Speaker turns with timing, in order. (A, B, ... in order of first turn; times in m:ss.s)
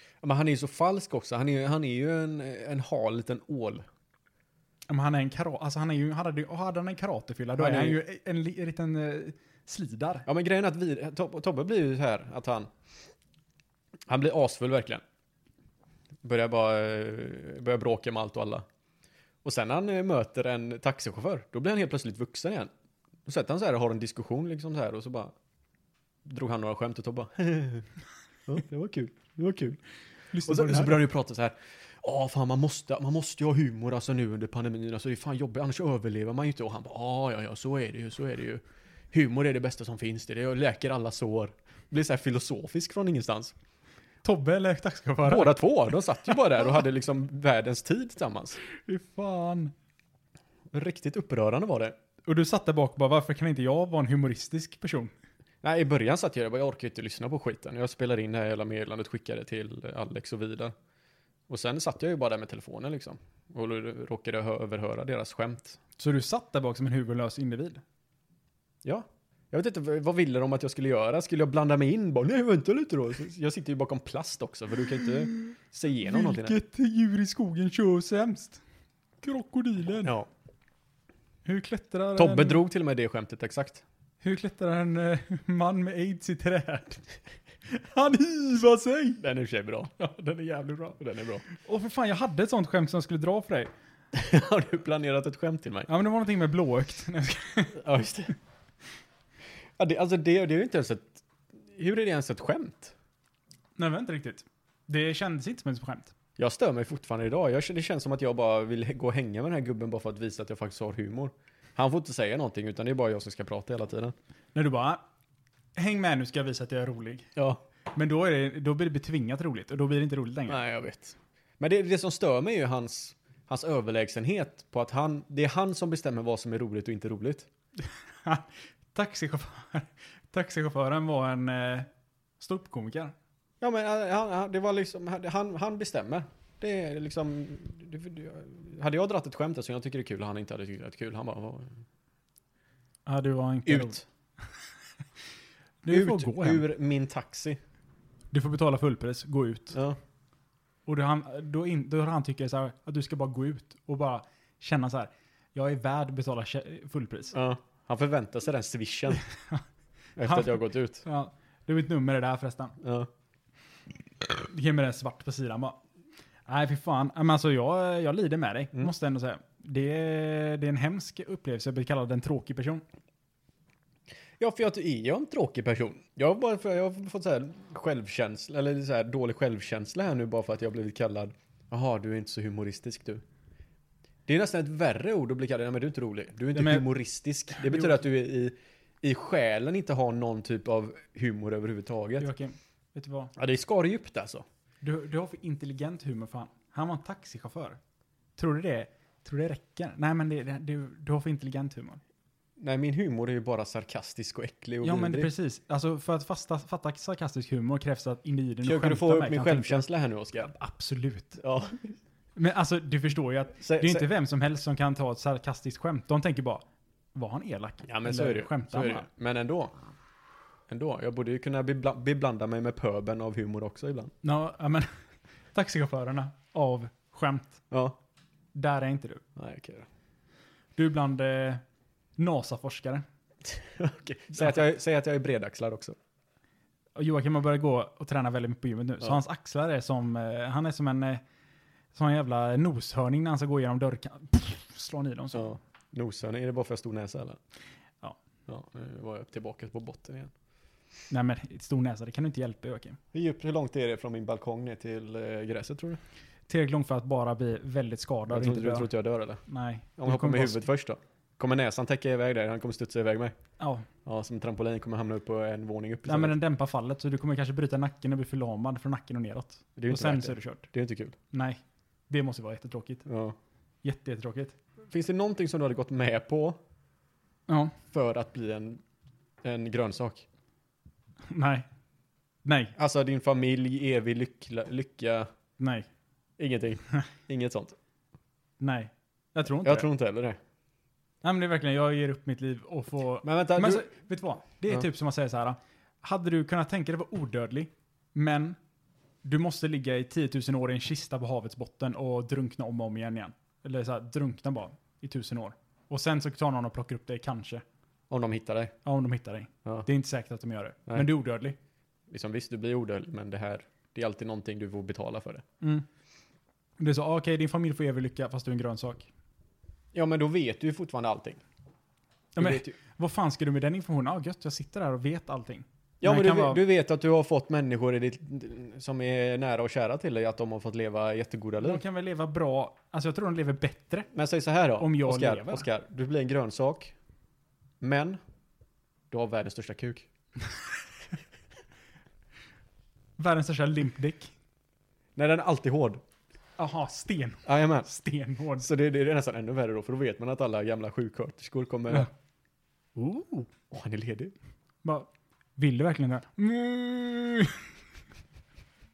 0:00.2-0:03.8 A
0:04.9-0:10.3 B
0:07.6-0:08.0 A
0:10.3-0:12.7 A
0:14.1-0:15.0 A
0:16.2-0:18.6 A
0:19.4-0:22.7 A
0:23.3-0:25.3 A
0:26.2-0:27.9 A
0:28.5-0:29.8 A
0:30.3-0:31.1 B
0:30.5-0:43.6 A
0:44.2-0:45.6 B
0:45.2-0:48.6 A
0:48.9-0:49.7 B
0:50.7-0:52.0 A
0:52.3-0:55.1 B
0:55.6-1:00.7 A
1:01.5-1:05.8 A
1:06.0-1:07.8 B
1:08.8-1:16.6 A
1:16.0-1:18.6 B
1:19.2-1:20.1 B
1:20.0-1:20.3 A
1:21.5-1:22.6 B
1:22.2-1:23.8 A
1:24.2-1:27.0 B
1:27.7-1:29.2 B
1:29.2-1:29.9 A
1:30.0-1:31.0 B
1:31.0-1:31.4 A
1:31.5-1:33.7 B
1:34.1-1:35.9 A
1:35.9-1:37.8 B
1:37.8-1:38.4 A
1:39.8-1:42.9 A
1:43.8-1:46.1 B
1:46.4-1:54.2 A
1:54.6-1:55.0 B
1:55.8-1:57.3 B
1:57.4-1:57.6 A
1:57.9-2:00.6 B
2:00.5-2:07.5 A
2:08.2-2:11.9 B
2:12.4-2:13.1 B
2:13.6-2:21.8 A
2:23.1-2:24.0 B
2:23.7-2:24.0 A
2:25.8-2:26.6 B
2:25.9-2:27.6 A
2:28.3-2:29.8 B
2:29.7-2:30.0 A
2:30.9-2:37.4 B
2:37.3-2:39.2 A
2:39.2-2:39.6 B
2:40.2-2:41.0 A
2:40.2-2:42.8 B
2:42.8-2:43.1 A
2:44.4-2:45.8 B
2:46.5-2:52.8 B
2:54.4-3:03.2 A
3:04.3-3:12.3 A
3:06.5-3:06.9 B
3:07.5-3:08.0 B
3:12.2-3:13.3 B
3:13.4-3:14.4 A
3:14.8-3:17.8 B
3:18.4-3:22.0 B
3:22.6-3:25.3 A
3:24.8-3:29.8 B
3:28.6-3:30.5 A
3:30.4-3:31.4 B
3:31.4-3:32.0 A
3:32.4-3:36.6 B
3:33.6-3:34.1 A
3:37.2-3:39.1 B
3:37.9-3:39.7 A
3:40.7-3:44.1 A
3:44.2-3:44.9 B
3:45.5-3:47.6 B
3:47.7-3:48.0 A
3:48.6-3:49.2 B
3:49.4-3:49.9 A
3:50.8-3:51.6 B
3:52.2-3:53.0 B
3:53.5-3:56.0 A
3:54.4-3:54.6 B
3:57.0-4:01.2 B
4:01.9-4:05.6 B
4:05.3-4:07.4 A
4:08.5-4:10.3 A
4:11.1-4:13.0 B
4:13.1-4:16.0 A
4:16.5-4:18.9 B
4:18.3-4:19.4 A
4:19.5-4:20.6 B
4:20.0-4:23.3 A
4:23.6-4:23.9 B
4:24.0-4:26.4 A
4:26.1-4:30.7 B
4:29.8-4:31.2 A
4:31.3-4:33.1 B
4:33.1-4:33.4 A
4:33.8-4:34.6 B
4:34.9-4:36.6 A
4:37.5-4:37.8 B
4:37.9-4:38.8 A
4:39.4-4:40.2 A
4:41.3-4:41.7 B
4:42.4-4:42.8 B
4:42.8-4:45.3 A
4:45.6-4:45.9 B
4:46.4-4:47.8 A
4:48.6-4:49.9 B
4:49.6-4:50.4 A
4:51.2-4:58.6 B
4:53.2-4:53.9 A
4:59.2-5:07.6 B
5:08.1-5:08.8 A
5:08.8-5:11.6 B
5:12.1-5:15.4 A
5:16.8-5:19.1 B
5:19.9-5:21.4 A
5:22.4-5:26.6 B
5:22.4-5:22.8 A
5:26.0-5:31.8 A
5:31.6-5:34.1 B
5:34.1-5:36.9 A
5:34.8-5:35.7 B
5:37.8-5:38.2 A
5:39.1-5:40.1 A
5:43.2-5:44.3 B
5:45.2-5:46.0 A
5:46.6-5:48.7 B
5:47.5-5:47.9 A
5:48.6-5:52.1 A
5:53.0-5:53.4 B
5:53.5-5:54.3 A
5:54.8-5:57.7 B